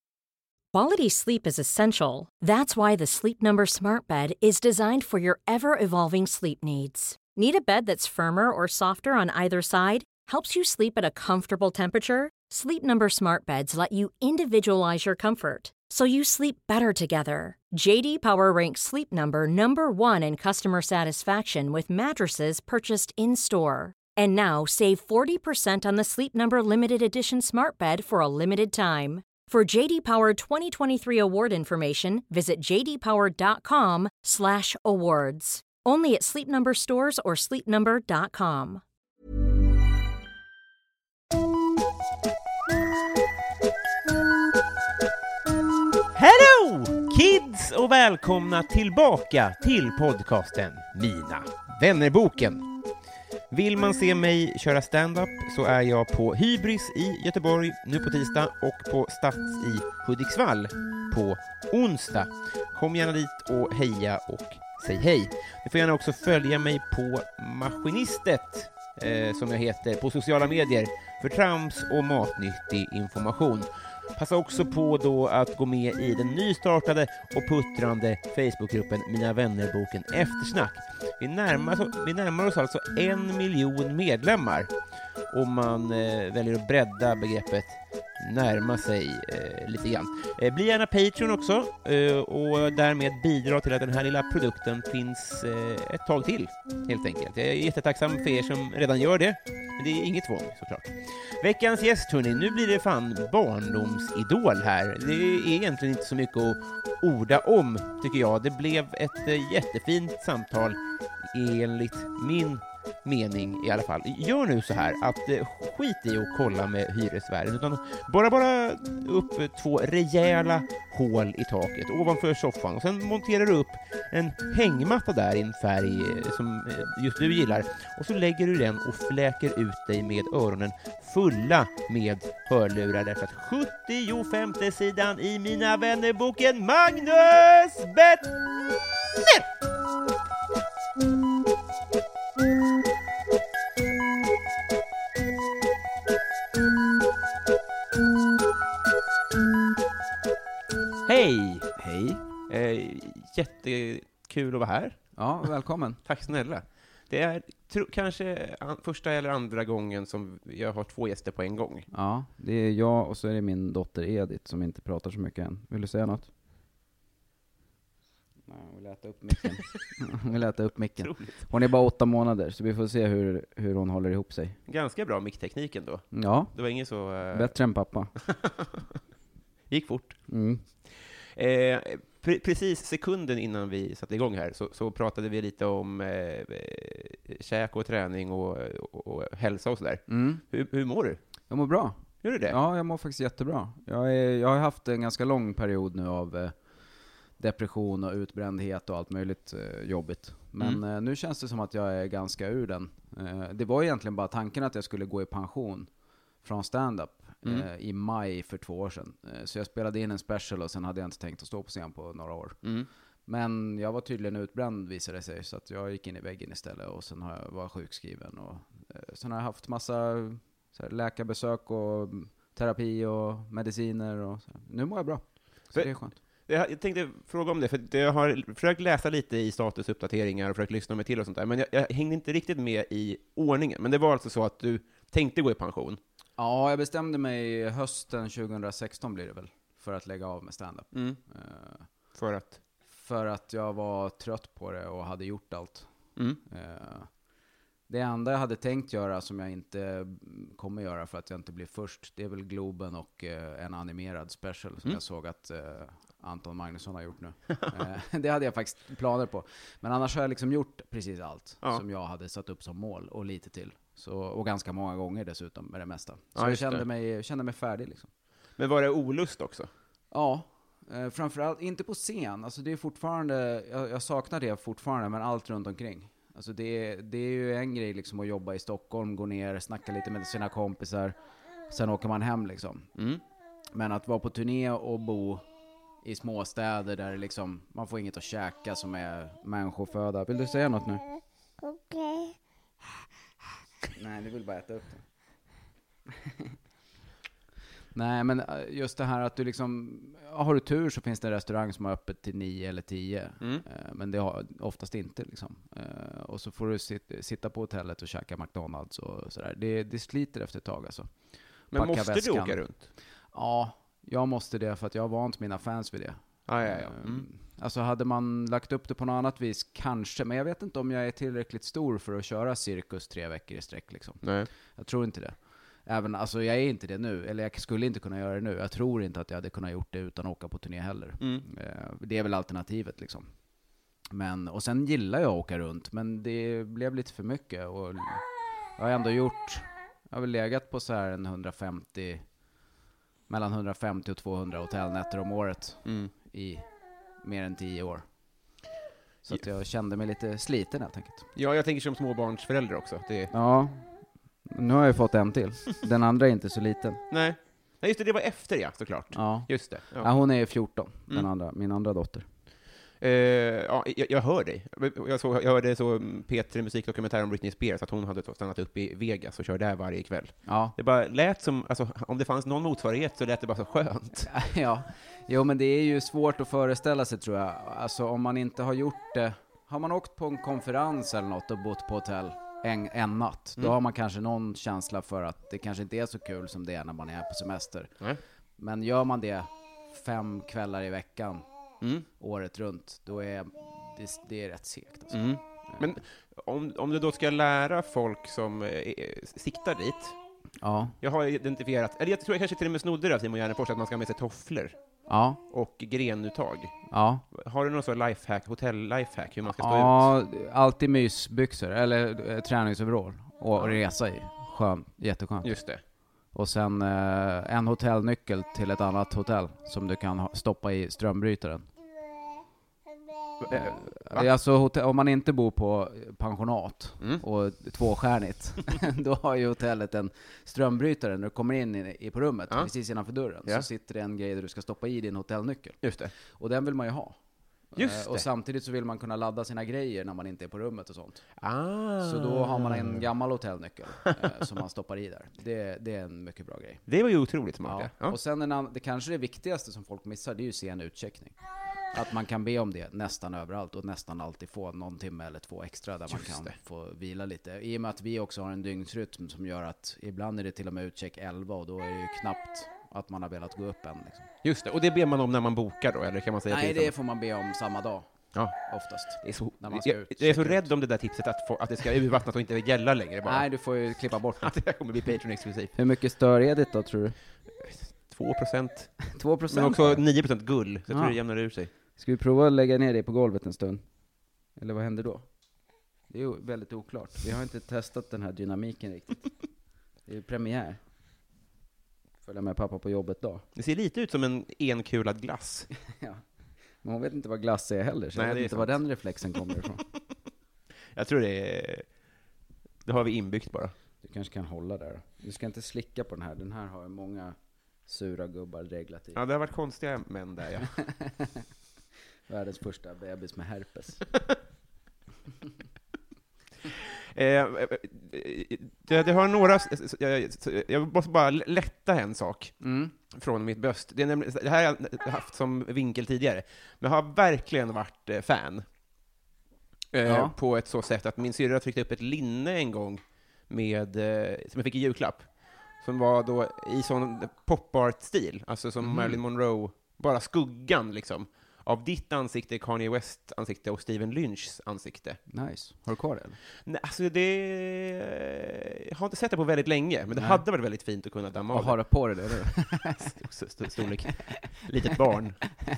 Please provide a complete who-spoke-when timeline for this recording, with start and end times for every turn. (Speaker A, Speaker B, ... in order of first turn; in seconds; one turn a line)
Speaker A: 0.7-38.8
Speaker B: 46.1-52.6
Speaker B: 53.5-84.7
Speaker B: 85.3-138.4
Speaker B: 139.2-139.4
Speaker B: 151.1-151.7
Speaker C: 151.8-152.2
Speaker B: 152.5-155.0
Speaker C: 155.2-156.0
Speaker B: 156.1-161.9
Speaker C: 161.9-166.3
Speaker C: 168.5-174.6
Speaker B: 171.0-171.3
Speaker B: 174.7-177.5
Speaker C: 176.1-176.5
Speaker C: 177.3-178.1
Speaker B: 178.2-179.0
Speaker B: 179.7-180.2
Speaker C: 180.3-180.6
Speaker B: 181.4-191.2
Speaker C: 190.1-190.4
Speaker C: 191.5-196.6
Speaker B: 192.2-192.6
Speaker C: 197.4-205.9
Speaker C: 206.4-212.6
Speaker C: 213.3-226.2
Speaker B: 226.5-236.0
Speaker C: 236.4-241.9
Speaker B: 240.9-241.2
Speaker B: 242.2-242.6
Speaker C: 242.9-245.9
Speaker C: 246.4-247.1
Speaker C: 247.9-268.1
Speaker B: 266.4-266.8
Speaker B: 268.6-269.7
Speaker C: 270.1-281.2
Speaker C: 281.7-282.9
Speaker B: 283.0-283.2
Speaker C: 283.7-285.4
Speaker C: 286.0-291.0
Speaker C: 293.9-295.0
Speaker C: 296.2-296.6
Speaker C: 297.9-311.1
Speaker C: 311.7-312.6
Speaker B: 311.7-312.9
Speaker C: 313.3-324.2
Speaker B: 316.5-317.3
Speaker B: 324.2-324.5
Speaker C: 324.8-333.3
Speaker C: 334.1-338.2
Speaker C: 338.8-342.2
Speaker C: 343.3-346.6
Speaker B: 345.9-346.1
Speaker C: 347.2-348.1
Speaker C: 349.3-351.3
Speaker B: 351.4-353.3
Speaker C: 353.3-353.9
Speaker C: 354.5-357.0
Speaker B: 357.1-360.1
Speaker C: 359.1-362.3
Speaker B: 363.0-374.3
Speaker C: 370.5-370.8
Speaker C: 374.3-387.9
Speaker C: 388.6-391.5
Speaker B: 391.8-392.1
Speaker C: 392.2-395.9
Speaker B: 395.1-400.2
Speaker C: 400.6-401.0
Speaker B: 401.0-404.8
Speaker C: 405.1-405.4
Speaker B: 405.5-406.8
Speaker C: 406.9-407.2
Speaker B: 407.3-410.1
Speaker C: 409.6-415.5
Speaker B: 415.4-415.8
Speaker C: 416.3-421.6
Speaker B: 423.4-424.3
Speaker C: 423.5-437.2
Speaker B: 435.8-436.1
Speaker C: 437.7-441.2
Speaker B: 437.8-438.2
Speaker B: 441.4-443.0
Speaker C: 442.0-446.8
Speaker B: 446.9-448.2
Speaker C: 447.6-451.4
Speaker C: 451.9-464.3
Speaker B: 456.1-456.5
Speaker B: 464.4-466.9
Speaker C: 466.5-468.1
Speaker C: 468.6-470.7
Speaker B: 469.2-473.5
Speaker C: 473.2-474.5
Speaker B: 474.4-475.7
Speaker C: 475.8-477.2
Speaker B: 477.6-481.7
Speaker C: 479.1-480.0
Speaker C: 480.9-481.2
Speaker C: 482.0-483.8
Speaker C: 484.6-485.3
Speaker C: 486.1-489.3
Speaker C: 490.1-490.8
Speaker C: 492.2-493.4
Speaker B: 493.6-495.7
Speaker C: 495.8-496.2
Speaker C: 496.8-499.8
Speaker B: 498.2-498.8
Speaker B: 500.9-501.9
Speaker B: 502.9-503.7
Speaker C: 504.0-507.4
Speaker C: 507.9-509.2
Speaker B: 509.1-510.7
Speaker C: 510.9-511.4
Speaker C: 512.3-514.1
Speaker B: 517.1-522.5
Speaker C: 522.6-522.9
Speaker B: 523.1-528.6
Speaker B: 529.9-535.3
Speaker C: 530.1-530.4
Speaker B: 535.8-545.2
Speaker C: 538.8-539.2
Speaker C: 545.3-546.4
Speaker B: 546.6-555.5
Speaker C: 550.1-550.4
Speaker C: 551.5-553.1